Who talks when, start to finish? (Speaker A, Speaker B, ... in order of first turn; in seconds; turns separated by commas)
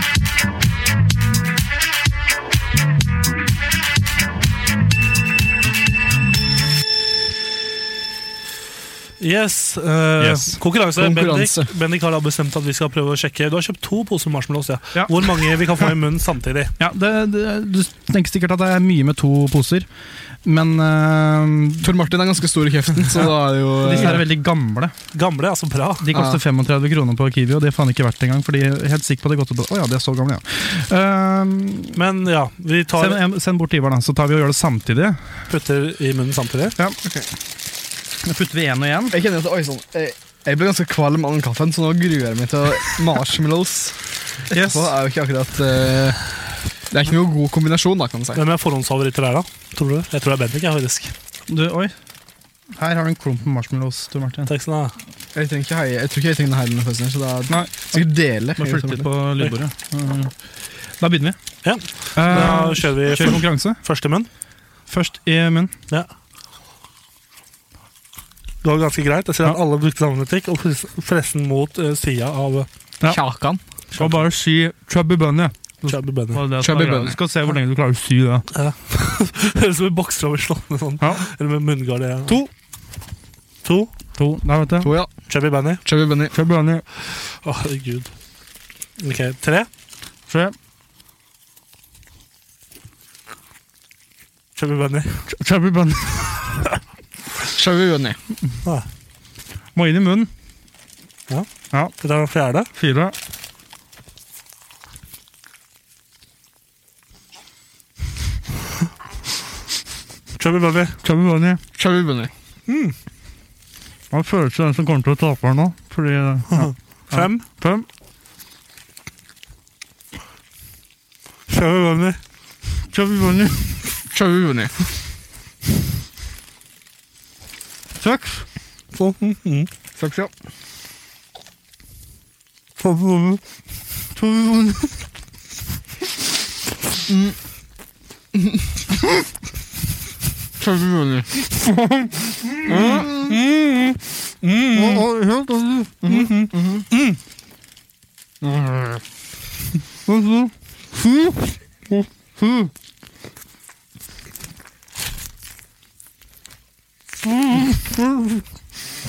Speaker A: 9.2-16.7, Speaker B: 10.2-10.6, Speaker C: 10.9-11.7, Speaker B: 14.9-15.4, Speaker B: 16.8-19.9, Speaker B: 20.4-21.9, Speaker C: 21.8-24.2, Speaker B: 23.8-24.9, Speaker A: 23.9-24.2, Speaker A: 25.1-26.1, Speaker B: 26.0-32.0, Speaker C: 26.1-26.4, Speaker A: 31.9-33.2, Speaker B: 33.0-35.3, Speaker A: 35.5-36.8, Speaker B: 38.2-39.2, Speaker C: 39.1-46.3, Speaker B: 44.5-44.9, Speaker C: 46.9-48.4, Speaker A: 48.4-51.1, Speaker B: 51.5-51.9, Speaker B: 52.8-54.5, Speaker A: 54.5-55.0, Speaker C: 55.4-59.1, Speaker B: 57.5-60.4, Speaker B: 61.0-61.4, Speaker A: 61.6-64.3, Speaker B: 62.1-63.8, Speaker B: 64.9-65.7, Speaker A: 68.6-72.7, Speaker C: 73.1-73.6, Speaker B: 73.9-78.5, Speaker A: 74.0-74.2, Speaker A: 75.8-76.5, Speaker C: 76.6-77.2, Speaker A: 78.5-82.4, Speaker B: 81.0-81.2, Speaker A: 83.6-83.9, Speaker B: 84.2-84.9, Speaker C: 84.8-85.1, Speaker A: 85.3-85.8, Speaker C: 85.8-86.3, Speaker B: 86.3-86.8, Speaker A: 87.0-88.1, Speaker A: 89.0-89.7, Speaker B: 90.3-90.5, Speaker A: 94.6-95.2, Speaker B: 95.3-96.6, Speaker C: 97.5-98.2, Speaker B: 99.7-100.3, Speaker A: 101.3-102.7, Speaker B: 102.8-103.2, Speaker A: 110.4-111.0, Speaker B: 111.0-111.6, Speaker C: 111.8-112.3, Speaker A: 112.7-113.0, Speaker B: 114.1-117.9, Speaker A: 116.5-117.5, Speaker A: 121.5-122.2, Speaker B: 122.9-123.9, Speaker C: 124.1-124.9, Speaker B: 128.0-128.5, Speaker A: 128.9-129.7, Speaker C: 130.0-130.3, Speaker B: 132.8-133.4, Speaker B: 134.1-135.0, Speaker C: 137.1-137.4, Speaker C: 138.3-138.6, Speaker C: 140.8-141.3, Speaker B: 141.5-143.4, Speaker A: 143.3-145.1, Speaker B: 144.7-146.5, Speaker C: 146.1-146.8, Speaker A: 146.1-147.2, Speaker B: 148.4-149.0, Speaker B: 150.1-152.7, Speaker B: 157.3-158.2